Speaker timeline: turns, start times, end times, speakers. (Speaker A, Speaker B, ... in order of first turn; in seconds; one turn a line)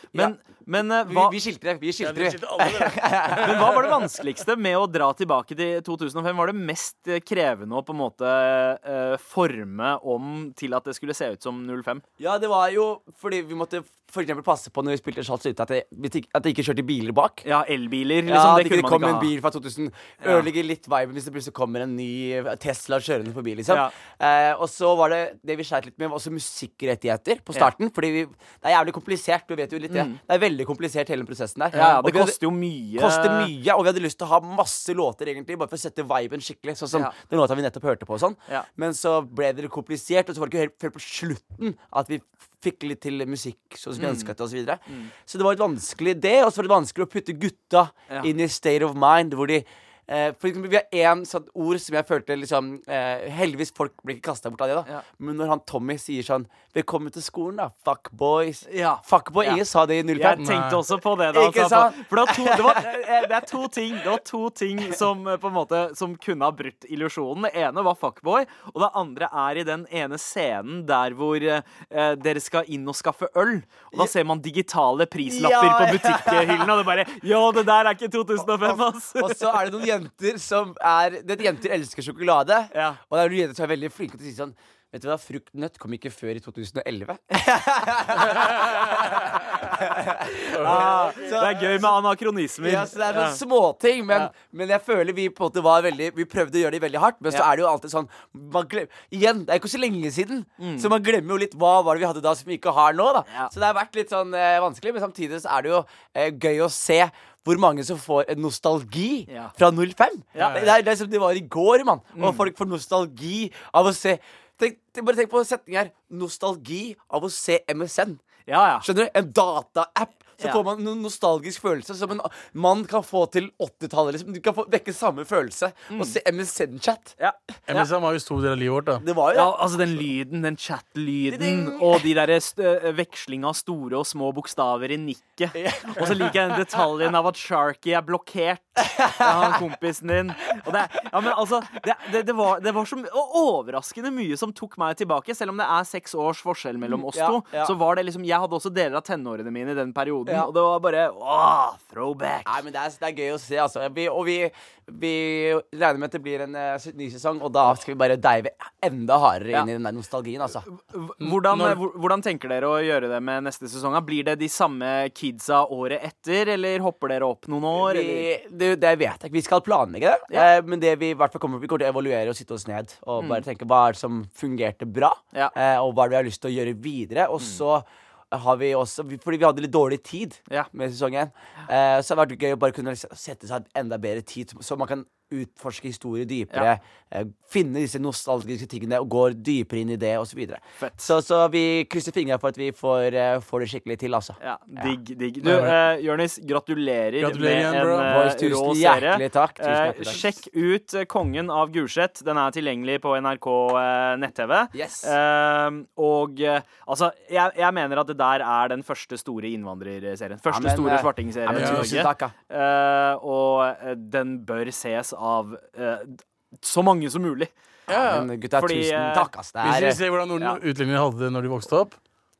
Speaker A: 0.1-1.3
Speaker B: 1.0-3.8
Speaker C: 2.0-4.0
Speaker A: 3.3-12.0
Speaker B: 12.2-17.4
Speaker A: 17.4-19.3
Speaker B: 18.2-60.5
Speaker A: 20.2-20.5
Speaker A: 29.9-30.2
Speaker C: 31.7-32.0
Speaker A: 31.7-33.5
Speaker A: 44.0-44.3
Speaker A: 58.7-59.6
Speaker A: 60.1-79.6
Speaker C: 60.4-60.8
Speaker B: 61.2-62.9
Speaker B: 75.2-76.7
Speaker B: 78.4-92.0
Speaker A: 82.7-83.0
Speaker C: 88.4-89.5
Speaker A: 90.3-93.4
Speaker C: 90.5-91.3
Speaker B: 92.6-118.2
Speaker A: 100.6-100.9
Speaker A: 109.3-109.5
Speaker A: 110.3-110.7
Speaker C: 110.4-110.7
Speaker A: 112.2-112.4
Speaker A: 118.5-118.9
Speaker B: 118.8-127.1
Speaker A: 127.2-127.9
Speaker C: 127.7-129.0
Speaker B: 129.0-129.5
Speaker A: 129.3-152.6
Speaker B: 131.3-132.1
Speaker B: 135.5-136.6
Speaker B: 138.8-139.6
Speaker B: 146.9-147.7
Speaker B: 152.4-160.7
Speaker A: 160.6-168.3
Speaker C: 161.2-161.8
Speaker B: 167.7-194.9
Speaker A: 173.2-173.4
Speaker A: 190.8-191.1
Speaker A: 194.4-217.5
Speaker C: 195.4-195.8
Speaker C: 197.2-198.1
Speaker B: 198.0-200.4
Speaker B: 204.7-205.1
Speaker B: 210.5-212.3
Speaker C: 211.5-212.0
Speaker C: 217.9-218.3
Speaker B: 217.9-220.0
Speaker A: 218.5-219.3
Speaker C: 219.6-222.0